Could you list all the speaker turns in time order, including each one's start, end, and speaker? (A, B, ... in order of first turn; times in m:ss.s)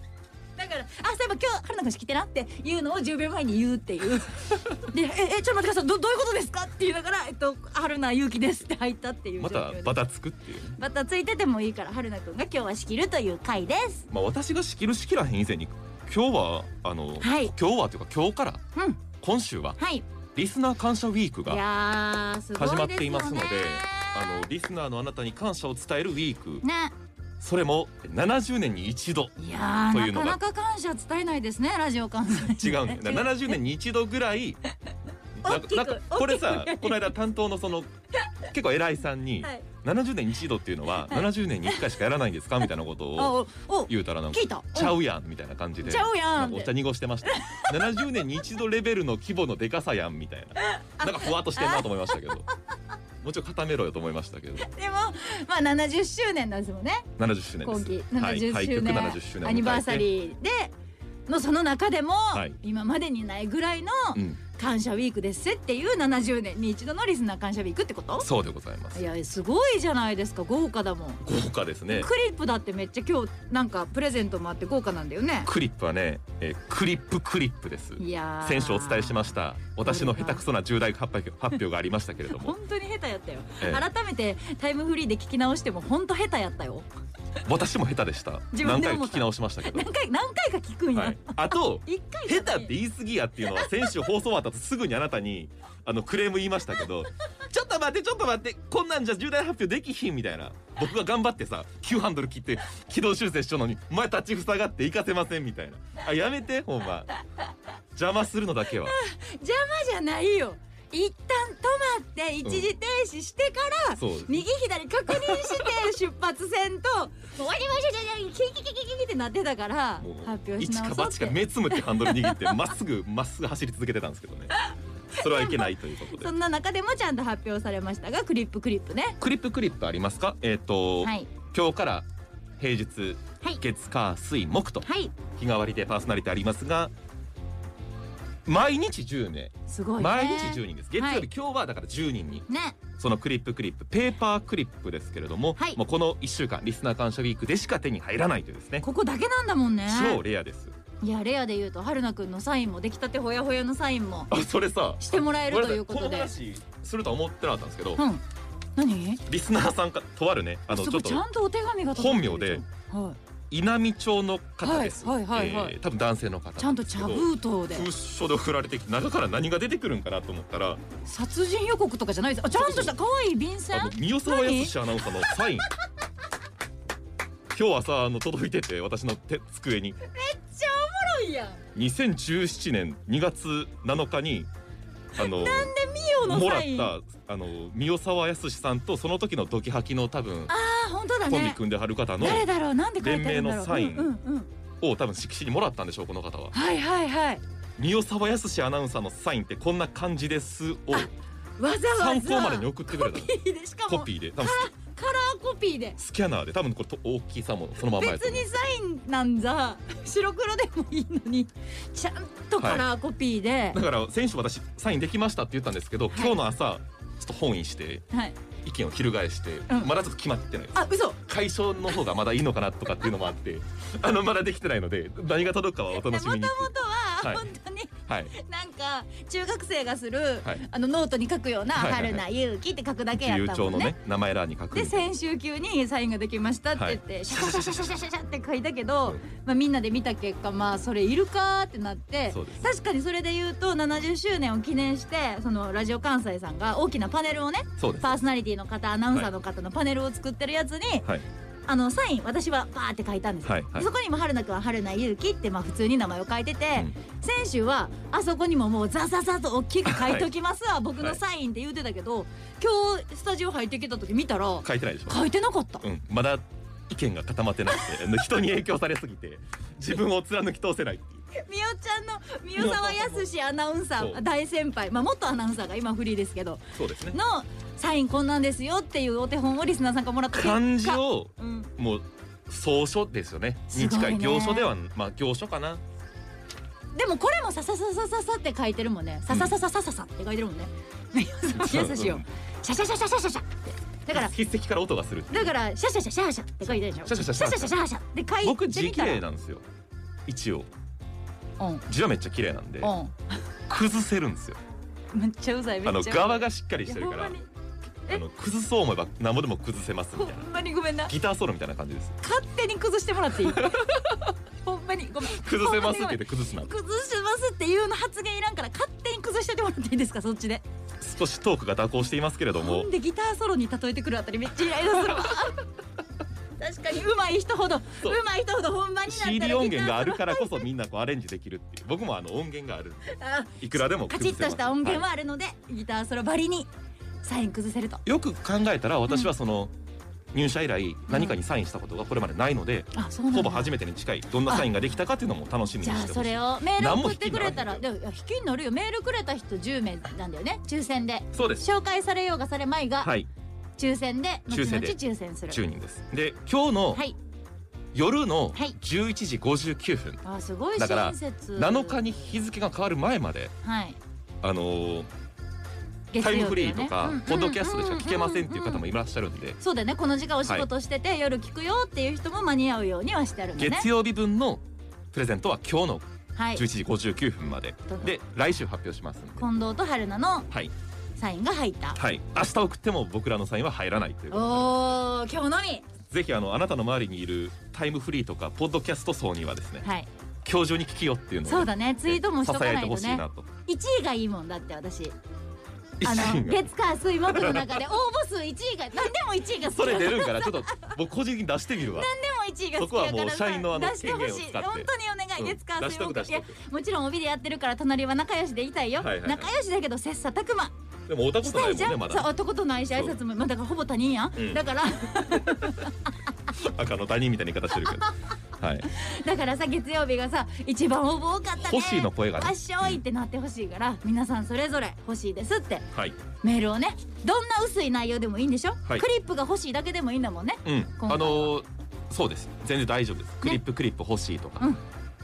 0:00.6-0:10.0 A
0:09.4-0:10.8 B
0:10.8-0:14.1 A
0:14.1-0:18.6 B
0:17.2-0:17.5 A
0:18.8-0:19.0 A
0:19.2-0:19.8 B
0:19.8-0:20.1 A
0:20.3-0:21.6 B
0:21.5-0:24.4 A
0:22.6-0:26.6 B
0:26.6-0:26.9 A
0:27.4-0:29.4 B
0:29.4-0:33.5 A
0:29.9-0:30.4 B
0:32.5-0:34.6 B
0:35.4-0:37.9 B
0:35.4-0:37.1 A
0:38.5-0:43.4 B
0:41.1-0:41.8 A
0:43.2-0:45.0 A
0:43.9-0:52.5 B
0:45.8-0:46.7 A
0:47.2-0:48.1 A
0:50.6-0:52.4 A
0:53.2-0:54.7 B
0:54.6-0:57.1 A
0:57.2-1:00.1 B
0:57.6-1:00.7 A
1:01.3-1:08.3 A
1:04.2-1:04.4 B
1:08.2-1:09.1 B
1:09.0-1:11.2 A
1:11.2-1:12.1 B
1:11.9-1:15.5 A
1:15.4-1:22.6 B
1:18.0-1:20.4 A
1:22.3-1:26.9 A
1:23.6-1:23.9 B
1:27.5-1:29.9 B
1:28.5-1:32.8 A
1:30.9-1:47.1 B
1:33.4-1:34.0 A
1:48.0-1:49.0 B
1:48.7-2:02.6 A
1:52.4-1:52.7 B
1:54.0-1:54.5 B
1:55.1-1:55.9 B
2:00.0-2:04.5 B
2:04.5-2:09.2 A
2:05.2-2:06.3 B
2:09.2-2:12.1 B
2:11.0-2:11.3 A
2:12.6-2:16.9 B
2:14.8-2:15.2 A
2:18.5-2:28.8 B
2:19.7-2:21.3 A
2:22.5-2:22.8 A
2:28.8-2:30.2 A
2:29.9-2:30.7 B
2:31.0-2:34.3 A
2:34.3-2:38.0 B
2:35.0-2:36.3 A
2:38.0-2:38.2 A
2:38.8-2:39.2 A
2:39.3-2:41.2 B
2:40.7-2:43.2 A
2:41.9-2:42.6 B
2:43.5-2:50.8 B
2:44.6-2:45.8 A
2:46.6-2:47.9 A
2:51.0-2:55.5 A
2:52.5-2:53.0 B
2:53.7-2:55.7 B
2:57.5-3:00.0 B
3:00.1-3:01.6 A
3:01.7-3:04.5 B
3:05.2-3:06.9 A
3:05.2-3:10.5 B
3:10.5-3:11.6 A
3:11.3-3:12.5 B
3:12.2-3:14.5 A
3:13.0-3:14.2 B
3:14.8-3:16.6 B
3:16.5-3:17.4 A
3:17.8-3:21.1 B
3:20.9-3:26.0 A
3:21.9-3:23.3 B
3:23.9-3:24.7 B
3:26.0-3:28.5 B
3:27.9-3:33.8 A
3:32.6-3:32.9 B
3:33.7-3:38.0 B
3:36.1-3:36.4 A
3:38.1-3:38.4 A
3:38.6-3:47.5 B
3:40.8-3:41.2 A
3:45.9-3:54.0 A
3:48.1-3:48.3 B
3:51.7-3:52.2 B
3:53.1-3:55.1 B
3:54.7-4:11.1 A
3:56.8-3:57.9 B
4:02.3-4:02.7 B
4:07.8-4:08.2 B
4:11.7-4:25.9 A
4:13.4-4:13.9 B
4:19.9-4:20.3 B
4:24.6-4:25.2 B
4:25.8-4:31.2 B
4:31.3-4:41.7 A
4:32.6-4:33.3 B
4:36.7-4:37.2 B
4:40.3-4:45.8 B
4:43.7-4:44.7 A
4:47.0-4:54.3 A
4:49.3-4:49.6 B
4:51.6-4:52.3 B
4:54.1-4:55.5 B
4:55.3-4:59.2 A
4:57.0-4:57.7 B
4:58.4-4:59.6 B
5:00.3-5:00.7 B
5:01.6-5:01.8 A
5:01.9-5:03.0 B
5:02.8-5:03.3 A
5:03.7-5:04.6 B
5:05.1-5:07.5 A
5:05.8-5:07.4 B
5:08.1-5:10.5 B
5:10.2-5:11.1 A
5:11.1-5:12.2 B
5:12.2-5:14.0 A
5:13.4-5:14.3 B
5:14.6-5:20.6 A
5:15.3-5:16.7 B
5:21.0-5:22.9 B
5:22.6-5:25.6 A
5:25.0-5:25.3 B
5:26.6-5:30.6 A
5:29.1-5:35.1 B
5:33.1-5:36.7 A
5:37.2-5:38.0 A
5:38.1-5:39.7 B
5:40.3-5:47.8 B
5:41.1-5:41.4 A
5:42.9-5:43.7 A
5:45.8-5:53.2 A
5:51.3-5:51.6 B
5:53.0-5:53.3 B
5:53.8-5:55.6 A
5:54.5-5:55.0 B
5:55.5-5:57.0 B
5:57.9-6:00.2 B
6:00.2-6:02.4 A
6:00.7-6:03.5 B
6:03.6-6:04.0 A
6:04.4-6:05.1 B
6:06.1-6:08.8 A
6:06.2-6:09.6 B
6:09.6-6:13.9 A
6:13.6-6:19.5 B
6:16.4-6:16.6 A
6:19.4-6:20.5 A
6:21.2-6:22.0 A
6:22.0-6:25.0 B
6:24.3-6:25.9 A
6:26.1-6:29.9 B
6:29.8-6:30.1 A
6:30.4-6:33.5 B
6:31.4-6:35.2 A
6:36.0-6:37.8 B
6:36.0-6:40.9 A
6:39.6-6:42.1 B
6:41.8-6:50.7 A
6:42.8-6:46.6 B
6:49.0-6:49.5 B
6:51.1-6:52.3 B
6:51.4-6:56.1 A
6:52.9-6:53.2 B
6:54.4-6:54.6 B
6:56.5-6:58.9 B
6:58.9-7:05.9 A
7:01.6-7:03.0 B
7:06.4-7:11.6 A
7:10.6-7:14.7 B